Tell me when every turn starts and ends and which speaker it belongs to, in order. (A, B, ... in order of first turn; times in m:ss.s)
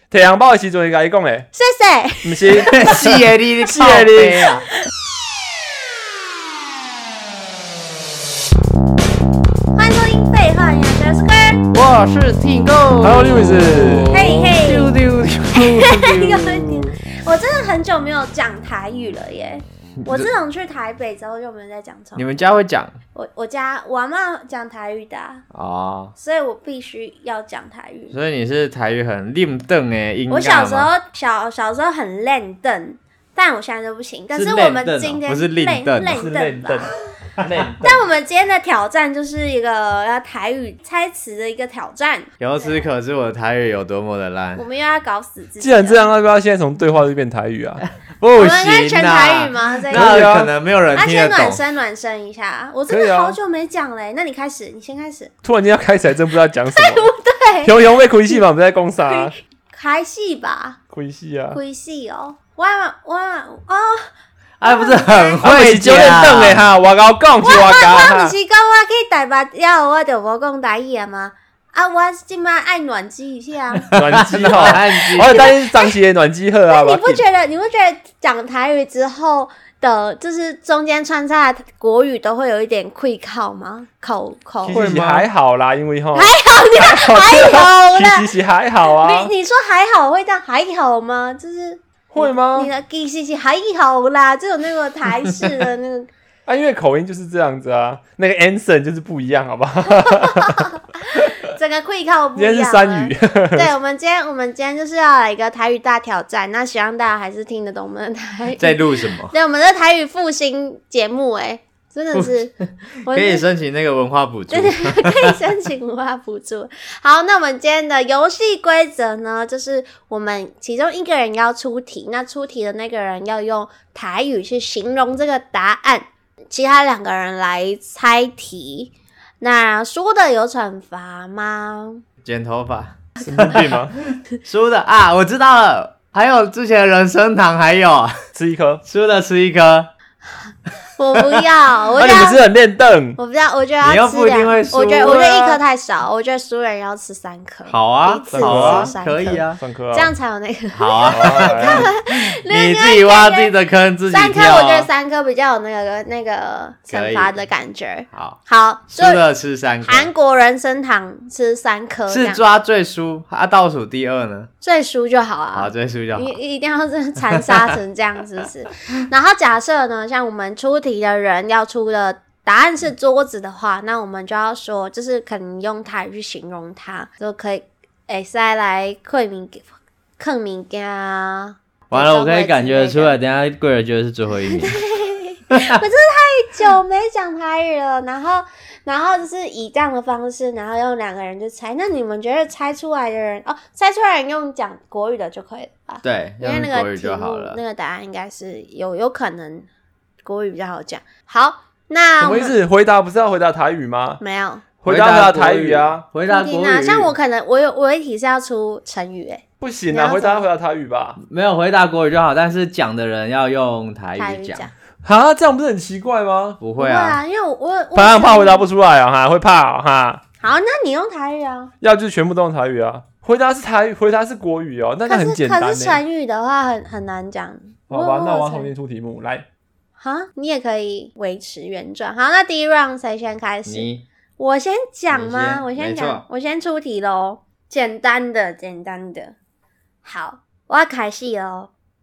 0:00.1-0:01.5 A
0:01.5-0:02.9 B
0:02.2-0:04.4 A
0:02.6-0:04.7 C
0:09.7-0:11.6 B
0:11.7-0:17.0 C
0:13.0-0:14.1 A
0:14.1-0:14.9 B
0:15.5-0:22.3 B
0:20.0-0:20.3 C
0:22.1-0:23.0 C
0:23.1-0:25.4 B
0:25.5-0:26.1 C
0:26.2-0:28.2 B
0:28.1-0:30.9 C
0:30.3-0:36.9 B
0:34.3-0:36.2 C
0:36.1-0:38.0 A
0:37.4-0:37.7 C
0:37.8-0:42.3 B
0:42.4-0:44.6 C
0:44.6-0:46.1 B
0:45.6-0:47.8 A
0:48.2-0:51.6 C
0:48.4-0:50.2 B
0:49.9-0:50.5 A
0:50.9-0:55.3 B
0:52.9-0:53.4 A
0:55.4-0:57.1 A
0:56.7-0:57.8 B
0:57.6-0:59.3 A
0:59.1-1:00.8 B
1:00.9-1:01.6 A
1:01.5-1:04.1 B
1:04.6-1:06.7 C
1:04.6-1:05.4 B
1:05.4-1:08.3 A
1:07.4-1:13.9 B
1:13.7-1:15.5 C
1:13.9-1:17.2 A
1:15.2-1:15.9 B
1:16.7-1:24.8 B
1:24.6-1:29.3 A
1:24.7-1:25.3 C
1:26.1-1:28.3 B
1:28.9-1:36.1 B
1:32.1-1:32.7 A
1:36.5-1:41.4 A
1:39.9-1:53.4 B
1:42.4-1:43.7 A
1:48.6-1:49.3 C
1:52.1-1:55.4 C
1:54.5-2:12.0 B
2:12.2-2:18.2 C
2:13.2-2:14.0 A
2:18.3-2:18.8 A
2:18.8-2:19.9 C
2:21.0-2:22.4 B
2:22.0-2:23.2 A
2:23.2-2:33.5 B
2:23.8-2:25.6 C
2:27.7-2:29.6 C
2:28.3-2:28.9 A
2:29.6-2:30.1 A
2:30.7-2:34.9 C
2:31.1-2:31.9 A
2:34.1-2:39.2 B
2:36.9-2:37.3 C
2:38.1-2:40.1 C
2:39.8-2:42.4 B
2:42.1-2:44.5 C
2:44.6-2:59.6 B
2:45.5-2:46.4 C
2:47.2-2:47.8 C
3:00.2-3:03.2 B
3:01.9-3:04.9 C
3:04.5-3:19.7 B
3:05.5-3:05.8 C
3:16.0-3:17.6 C
3:20.2-3:22.5 B
3:22.2-3:24.2 A
3:24.2-3:24.7 B
3:24.8-3:26.0 A
3:24.8-3:27.1 C
3:26.3-3:30.4 B
3:29.6-3:31.2 A
3:31.2-3:34.7 C
3:34.2-3:34.7 B
3:35.0-3:36.6 A
3:36.6-3:37.2 C
3:36.8-3:38.6 B
3:37.9-3:40.2 A
3:40.4-3:41.7 B
3:41.8-3:46.0 A
3:45.1-3:48.7 B
3:47.9-3:49.4 A
3:50.0-3:53.9 B
3:53.6-3:54.0 C
3:54.4-3:59.3 B
3:55.1-3:56.2 C
4:00.0-4:01.7 B